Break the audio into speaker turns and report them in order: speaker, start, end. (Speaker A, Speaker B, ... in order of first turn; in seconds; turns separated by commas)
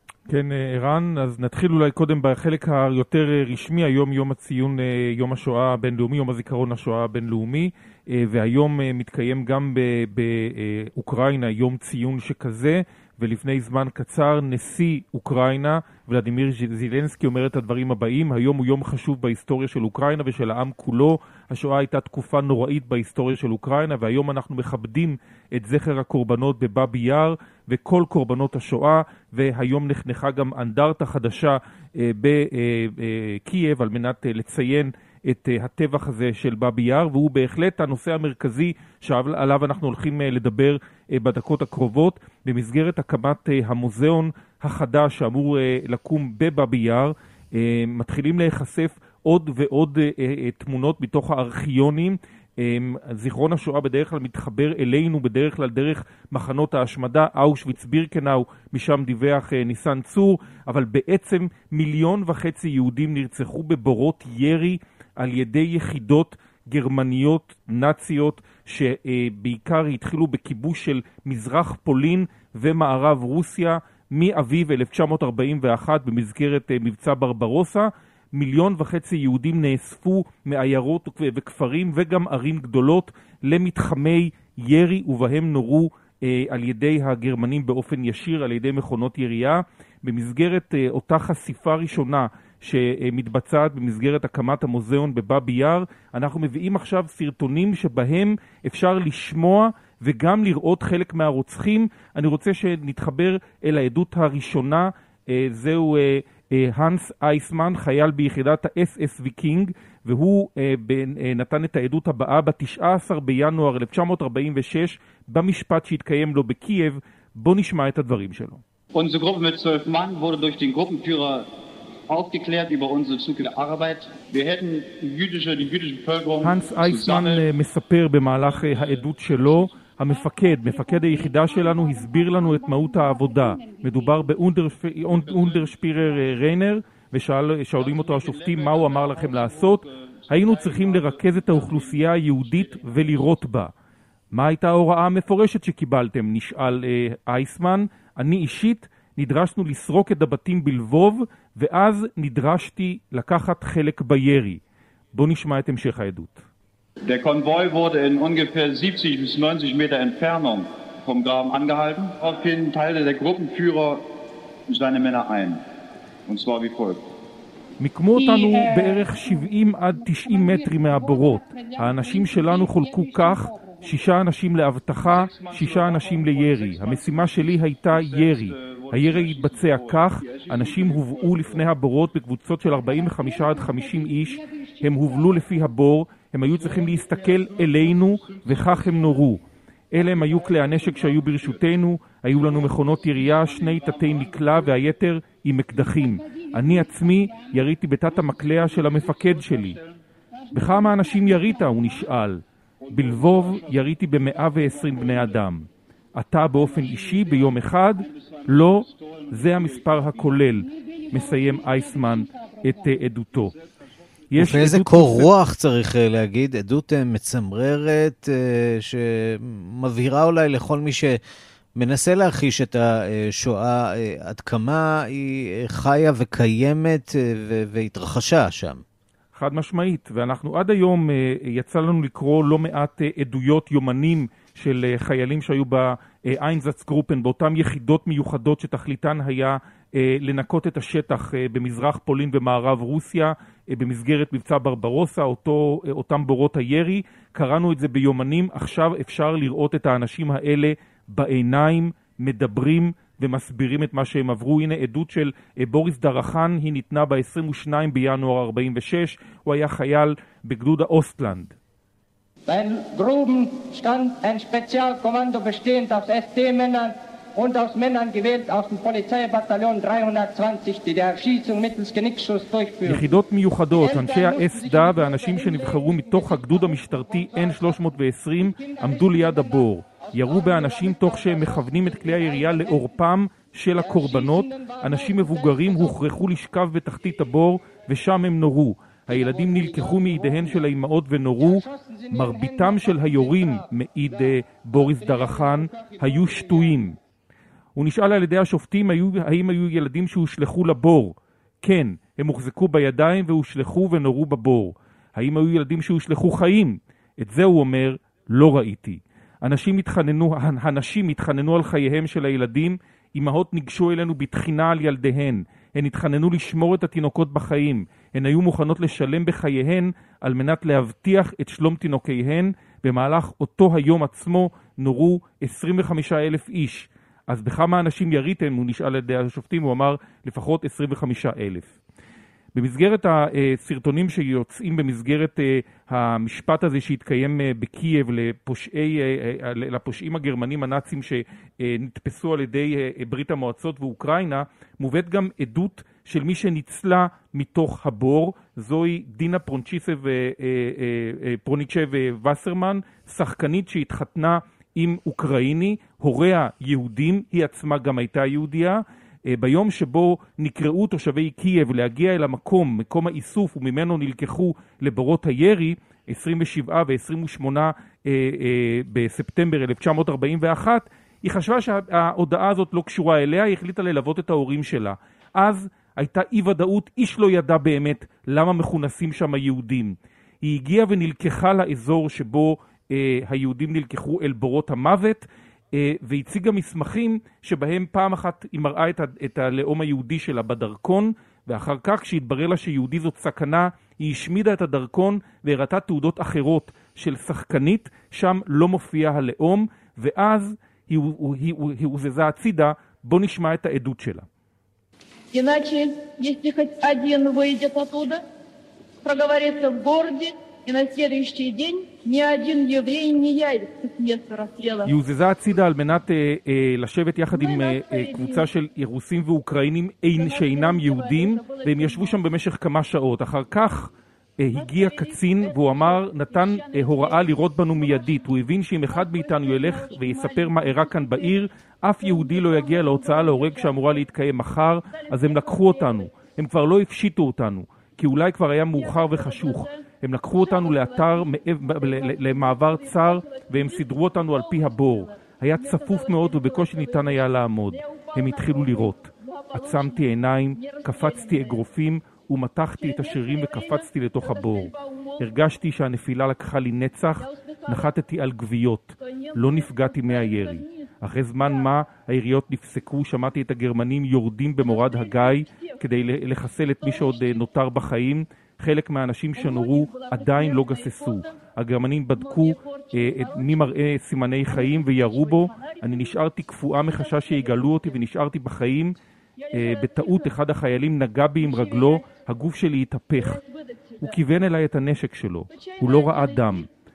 Speaker A: 0.3-118.6, Speaker B: 119.0-121.5, Speaker B: 122.1-127.5, Speaker A: 126.4-143.7, Speaker B: 128.6-129.0, Speaker C: 130.4-133.9, Speaker B: 135.1-135.8, Speaker B: 137.8-143.4, Speaker A: 144.3-154.6, Speaker A: 155.1-156.4, Speaker B: 157.1-164.1, Speaker B: 164.7-165.6, Speaker B: 166.3-167.0, Speaker A: 167.8-189.4, Speaker C: 168.2-169.4, Speaker C: 170.2-173.2, Speaker B: 175.0-181.7, Speaker C: 183.1-183.8, Speaker C: 184.6-184.9, Speaker B: 186.5-189.3, Speaker A: 189.9-199.8, Speaker B: 190.0-191.7, Speaker B: 192.3-194.8, Speaker B: 198.1-200.0, Speaker A: 200.5-213.5, Speaker B: 202.8-205.4, Speaker B: 206.6-210.5, Speaker B: 213.3-213.7, Speaker A: 214.3-215.3, Speaker D: 214.3-221.2, Speaker D: 221.8-228.8, Speaker A: 229.3-261.5, Speaker E: 262.5-273.0, Speaker A: 272.9-297.0, Speaker C: 275.0-275.9, Speaker E: 289.5-290.0, Speaker E: 292.1-292.5, Speaker A: 297.8-331.7, Speaker A: 332.6-404.3, Speaker C: 405.3-408.2, Speaker C: 409.1-414.9, Speaker A: 414.9-479.0, Speaker C: 417.3-418.5, Speaker C: 420.1-422.3, Speaker C: 424.5-431.5, Speaker C: 432.0-434.1, Speaker C: 434.9-436.2, Speaker C: 438.7-451.7, Speaker C: 452.8-455.5, Speaker C: 457.2-458.0, Speaker C: 459.0-461.7, Speaker C: 464.6-465.9, Speaker C: 466.5-467.6, Speaker C: 469.4-471.4, Speaker C: 472.2-473.7, Speaker C: 474.4-478.0, Speaker C: 479.4-480.4, Speaker A: 479.5-483.4, Speaker C: 481.4-482.1, Speaker C: 483.2-484.2, Speaker A: 484.0-486.7, Speaker C: 485.5-486.7